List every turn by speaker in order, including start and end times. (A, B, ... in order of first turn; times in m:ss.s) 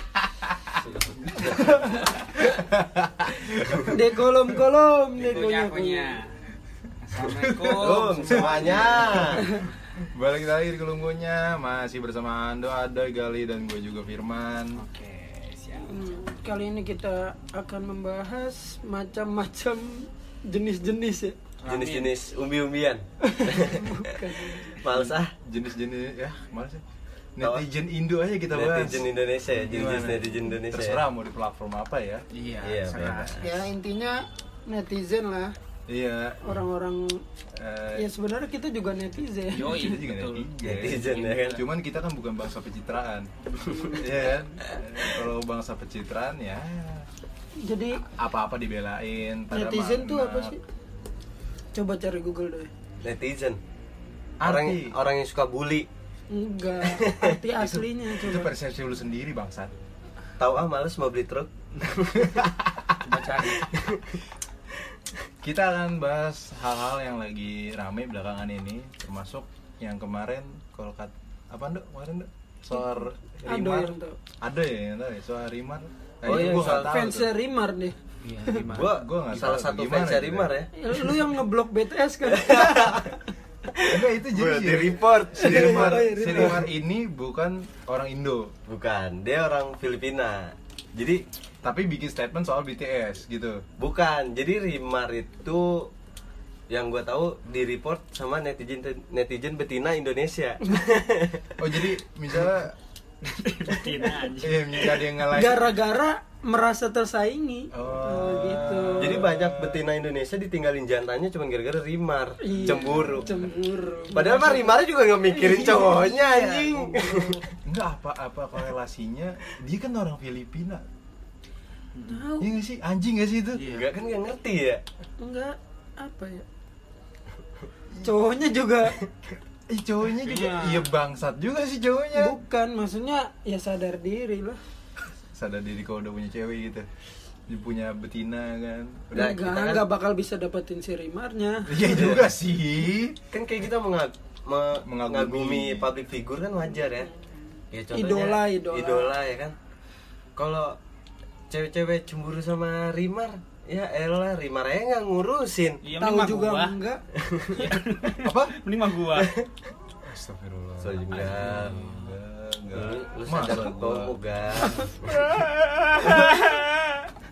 0:00.8-0:01.8 A
0:01.5-0:01.9 B
0:02.4-0:03.9 C
0:03.9-0:06.2 B
0:05.2-0:06.3 D
0:07.0-0:09.3 D
0:07.3-0:09.4 C
0:07.6-0:09.4 A
0:09.4-0:09.6 B
0:10.0-0:14.8 C
0:14.8-0:16.2 D
0:15.8-0:21.4 B
0:21.6-0:22.2 D
0:21.7-0:25.3 A
0:23.2-0:24.8 B
0:24.9-0:26.8 C
0:27.4-0:29.1 C
0:28.5-0:31.0 A
0:29.6-0:32.2 C
0:32.3-0:33.5 D
0:32.6-0:33.6 A
0:33.4-0:35.6 B
0:35.9-0:36.6 C
0:36.4-0:37.2 B
0:37.5-0:38.0 C
0:38.0-0:39.9 B
0:39.5-0:41.6 D
0:39.6-0:47.1 C
0:40.6-0:41.6 A
0:47.6-0:48.0 B
0:48.1-0:50.6 C
0:49.5-0:50.6 B
0:51.7-0:52.7 B
0:53.0-0:53.6 A
0:54.4-0:54.9 C
0:54.4-0:55.9 A
0:56.3-0:58.5 B
0:56.8-0:57.3 A
0:57.5-0:59.8 C
1:00.4-1:02.4 A
1:02.3-1:02.9 C
1:03.0-1:03.7 D
1:03.6-1:04.2 A
1:05.4-1:17.3 C
1:13.5-1:14.2 B
1:16.2-1:17.0 A
1:16.4-1:18.0 B
1:18.2-1:18.9 D
1:18.7-1:20.7 A
1:18.7-1:20.5 C
1:20.8-1:23.2 B
1:22.3-1:23.1 A
1:23.7-1:26.1 A
1:23.9-1:28.5 C
1:25.4-1:26.7 B
1:28.7-1:31.2 A
1:31.6-1:33.6 C
1:33.8-1:35.9 A
1:36.7-1:41.5 A
1:41.6-1:42.8 C
1:43.2-1:45.0 D
1:44.4-1:45.8 C
1:45.3-1:49.2 B
1:47.7-1:49.8 C
1:49.0-1:53.3 A
1:52.4-1:57.2 B
1:54.1-1:57.4 A
1:57.6-2:00.8 C
2:02.0-2:02.2 D
2:02.1-2:02.5 B
2:02.4-2:03.7 C
2:03.6-2:03.9 D
2:03.7-2:04.8 A
2:05.2-2:06.4 B
2:08.0-2:09.0 B
2:09.7-2:12.4 C
2:10.2-2:10.9 D
2:12.1-2:14.6 B
2:15.3-2:16.9 C
2:17.5-2:19.2 C
2:19.1-2:19.9 A
2:19.1-2:21.7 B
2:21.7-2:23.2 C
2:21.9-2:22.3 A
2:23.3-2:27.1 A
2:24.8-2:25.9 C
2:27.7-2:29.6 A
2:27.9-2:29.2 B
2:30.4-2:30.8 A
2:31.5-2:35.8 A
2:35.8-2:36.8 D
2:36.0-2:37.0 B
2:37.2-2:37.7 A
2:37.5-2:39.3 D
2:38.2-2:38.6 C
2:39.2-2:39.5 A
2:40.0-2:44.2 C
2:40.8-2:41.9 A
2:42.7-2:45.2 A
2:45.3-2:47.0 D